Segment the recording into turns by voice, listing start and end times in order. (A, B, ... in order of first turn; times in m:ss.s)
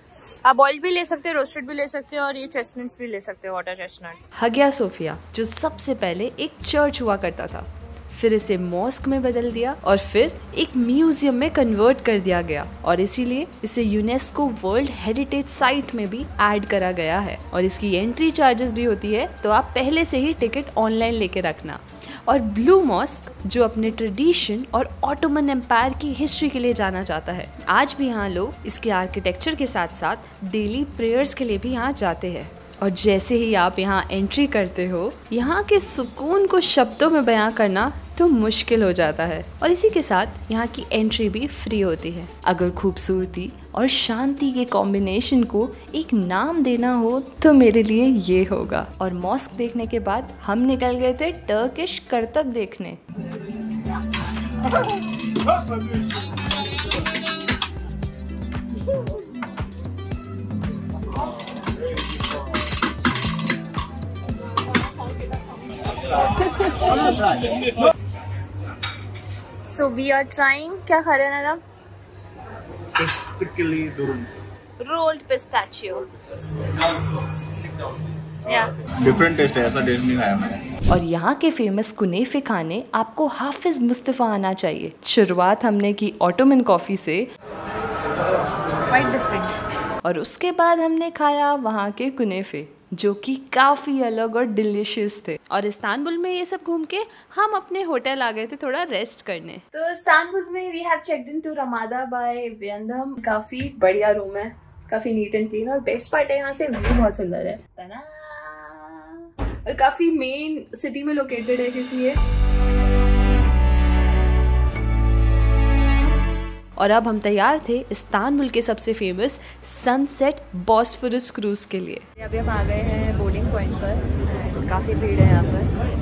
0:00.4-0:04.2 A
0:04.4-0:53.0 B
1:06.5-1:07.1 A
1:09.6-1:11.6 A
1:13.0-1:14.3 C
1:14.8-1:16.1 A
1:18.4-1:18.7 A
1:18.5-1:20.6 C
1:20.9-1:27.3 B
1:28.9-1:29.5 A
1:30.0-1:39.6 B
1:39.7-1:52.2 A
1:56.8-2:02.0 B
2:02.2-2:05.7 A